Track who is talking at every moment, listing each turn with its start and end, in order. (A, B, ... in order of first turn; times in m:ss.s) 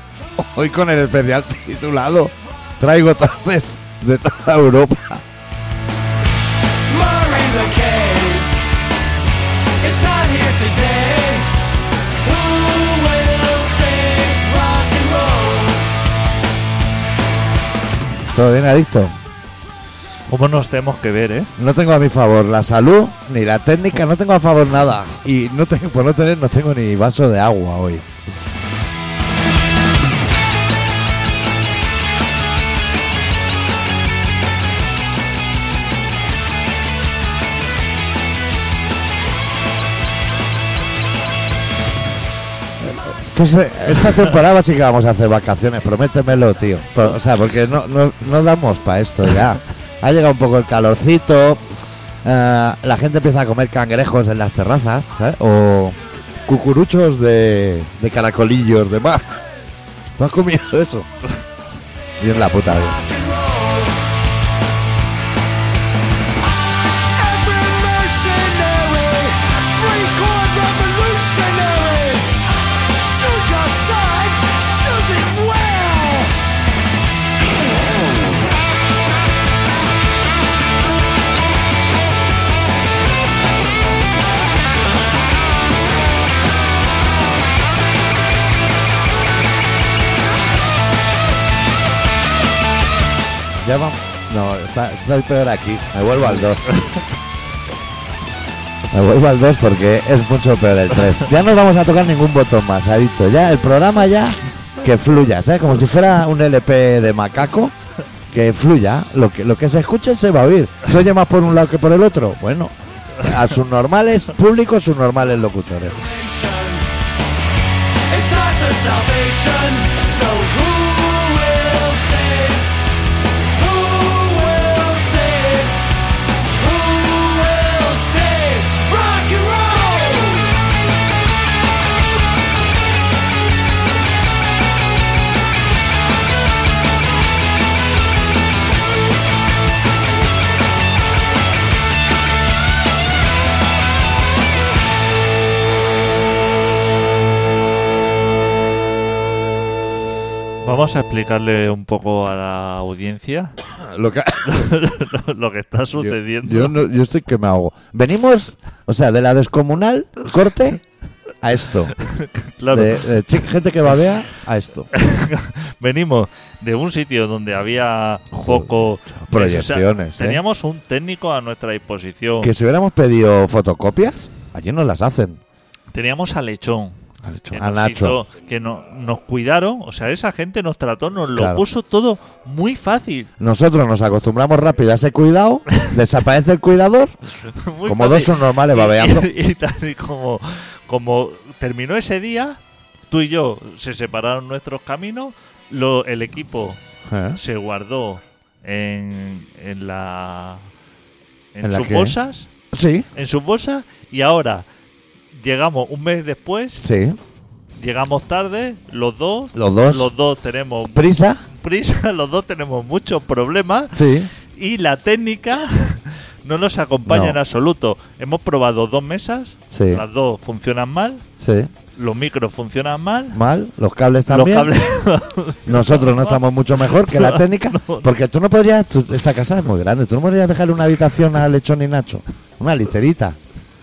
0:00.4-0:05.2 A
0:06.9-0:08.5 B
0:09.8-0:11.5 B
0:12.2-0:15.8 B
0:18.3-0:19.2 A
0:20.3-0:21.5 C
0:21.6-0:28.1 A
0:42.8-0:51.6 A
0:52.2-0:59.3 A
1:00.1-1:01.1 A
1:02.2-1:03.0 A
1:02.8-1:04.0 B
1:06.8-1:16.3 B
1:33.6-1:36.7 A
1:36.3-1:37.0 C
1:38.9-1:47.7 A
1:48.3-1:56.0 A
1:56.0-1:56.8 B
1:58.1-2:02.7 B
2:03.5-2:05.8 B
2:06.6-2:10.6 B
2:30.6-2:33.6 C
2:33.7-2:34.7 A
2:34.4-2:36.8 C
2:36.0-2:40.8 A
2:41.4-2:41.9 A
2:42.0-2:43.1 C
2:42.7-2:44.9 A
2:44.9-2:52.5 C
2:48.3-2:50.4 A
2:52.4-2:55.4 A
2:55.9-2:56.9 C
2:57.2-2:58.2 A
2:57.5-3:03.3 C
3:01.3-3:01.6 A
3:03.4-3:07.1 A
3:07.5-3:16.8 C
3:07.8-3:09.3 A
3:17.1-3:17.4 A
3:17.3-3:20.7 C
3:21.5-3:22.5 C
3:21.6-3:22.2 A
3:22.7-3:23.1 A
3:23.1-3:24.6 C
3:25.3-3:26.8 C
3:26.8-3:27.2 A
3:27.8-3:31.0 C
3:29.5-3:30.1 A
3:30.9-3:31.4 A
3:31.6-3:41.2 C
3:33.9-3:34.3 A
3:37.1-3:37.4 A
3:39.7-3:40.0 A
3:41.4-3:41.7 A
3:41.9-3:43.4 C
3:43.3-3:44.7 A
3:44.3-3:48.1 C
3:45.6-3:53.4 A